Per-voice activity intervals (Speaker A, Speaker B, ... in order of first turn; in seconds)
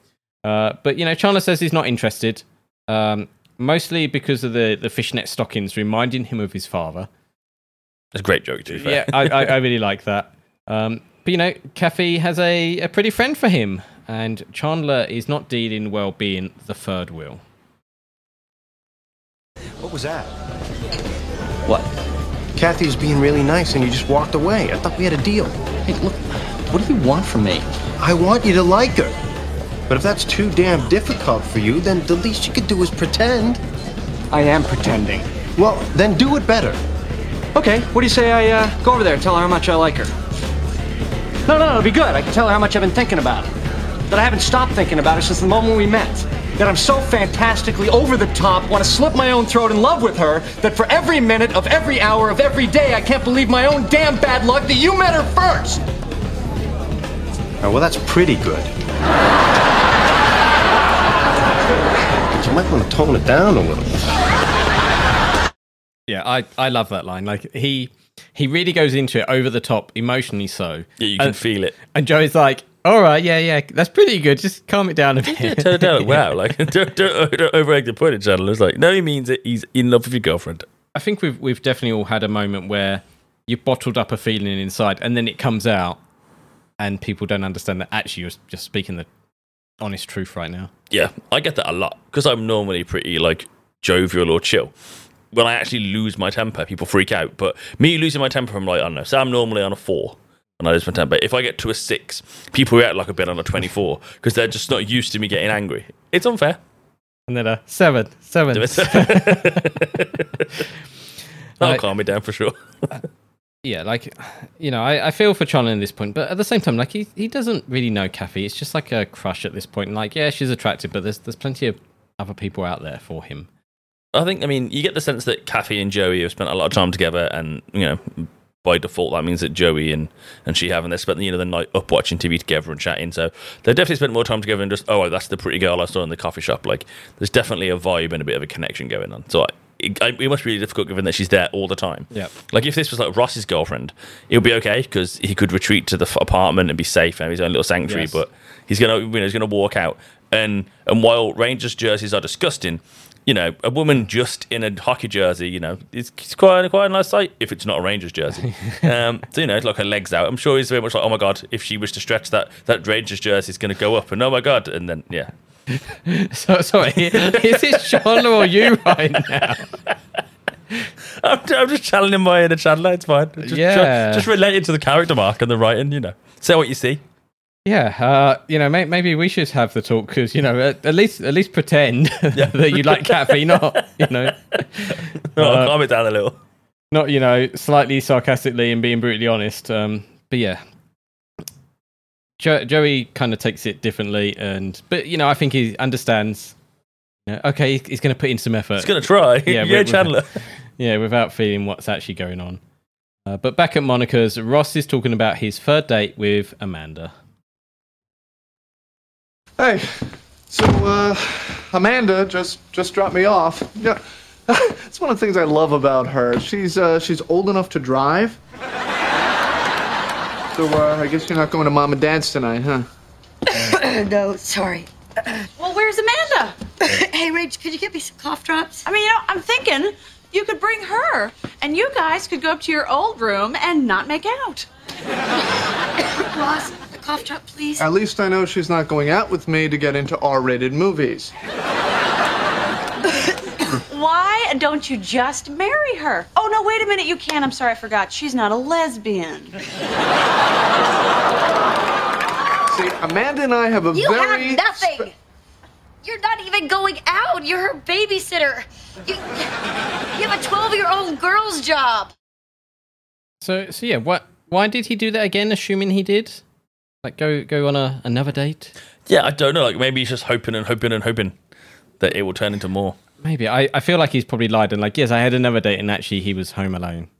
Speaker A: 0.4-7.1, 8.7-17.4, 66.1-71.4, 71.9-76.2, 80.9-86.0, 86.8-89.1, 89.8-90.7, 107.3-109.9, 113.6-123.5, 147.8-148.2, 165.7-169.7, 173.4-174.3, 177.6-185.7, 186.9-190.6, 192.4-196.6, 197.2-198.9, 199.4-200.2, 200.8-202.6, 203.2-207.1, 263.4-266.4, 267.0-268.7, 273.2-277.1
Speaker B: 8.1-9.6, 71.0-71.8, 75.2-80.6, 90.9-94.7, 95.3-106.6, 108.5-110.6, 111.6-113.0, 124.1-165.3, 167.1-168.5, 171.2-177.0, 182.3-186.4, 198.8-200.4, 269.1-271.4, 272.0-273.0
Speaker C: 19.8-20.3, 22.5-25.6, 28.0-29.2, 29.9-33.6, 35.6-36.8, 57.6-58.7, 62.3-64.1
Speaker D: 25.8-27.6, 34.3-35.3, 37.5-40.1, 41.5-43.5, 44.1-55.8
Speaker E: 209.6-218.4, 220.5-222.9, 237.8-241.3, 252.7-255.1
Speaker F: 223.5-225.4, 226.8-228.8, 236.2-237.8, 253.9-255.1, 256.0-259.5, 260.1-262.1
Speaker G: 225.6-226.6, 228.8-234.7, 243.9-249.6